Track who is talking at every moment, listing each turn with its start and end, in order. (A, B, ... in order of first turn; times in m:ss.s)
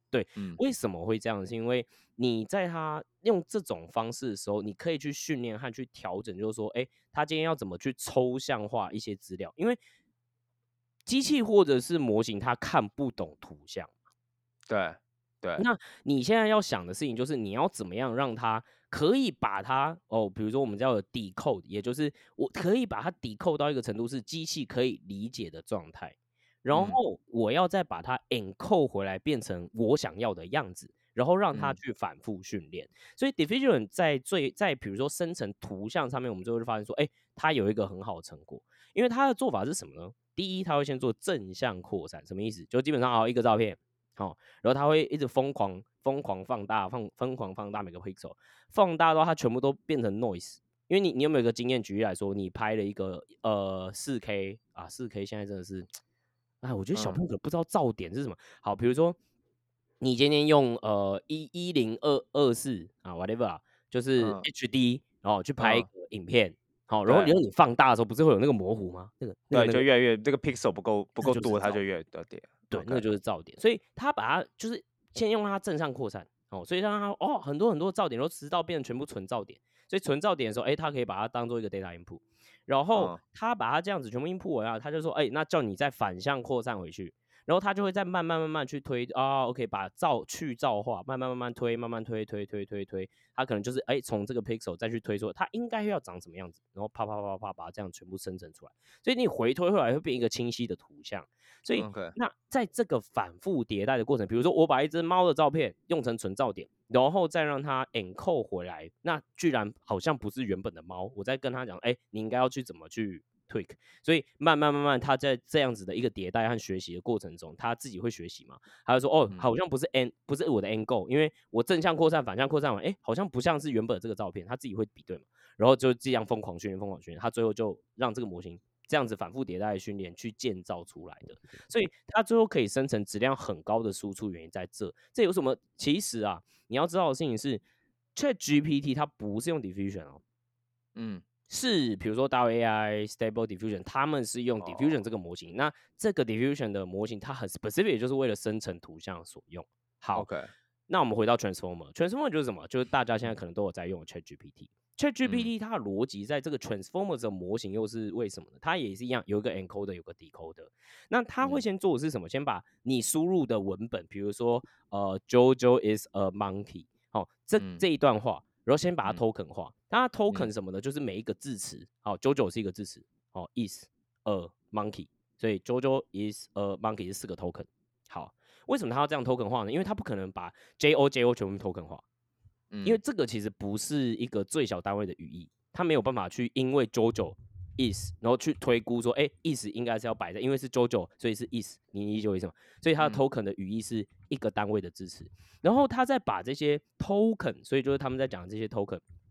0:00.1-0:09.8 A
0:11.0-0:13.9 A
0:14.7-0:15.6 B
0:15.6-0:55.9 A
0:26.7-0:27.0 B
0:31.5-0:31.8 B
0:56.6-0:59.2 A
0:56.9-0:57.2 B
1:00.0-1:09.9 A
1:04.2-1:04.4 B
1:05.6-1:05.9 B
1:07.0-1:07.3 B
1:09.5-1:13.0 B
1:11.2-1:11.8 A
1:12.7-2:17.6 A
1:22.9-1:23.2 B
1:41.7-1:42.1 B
2:18.1-2:20.2 A
2:21.0-2:21.2 B
2:21.5-2:30.3 A
2:24.6-2:25.0 B
2:30.1-2:30.5 B
2:30.9-3:02.0 A
2:35.2-2:35.5 B
2:47.6-2:47.8 B
3:02.7-3:03.0 B
3:02.8-3:19.0 A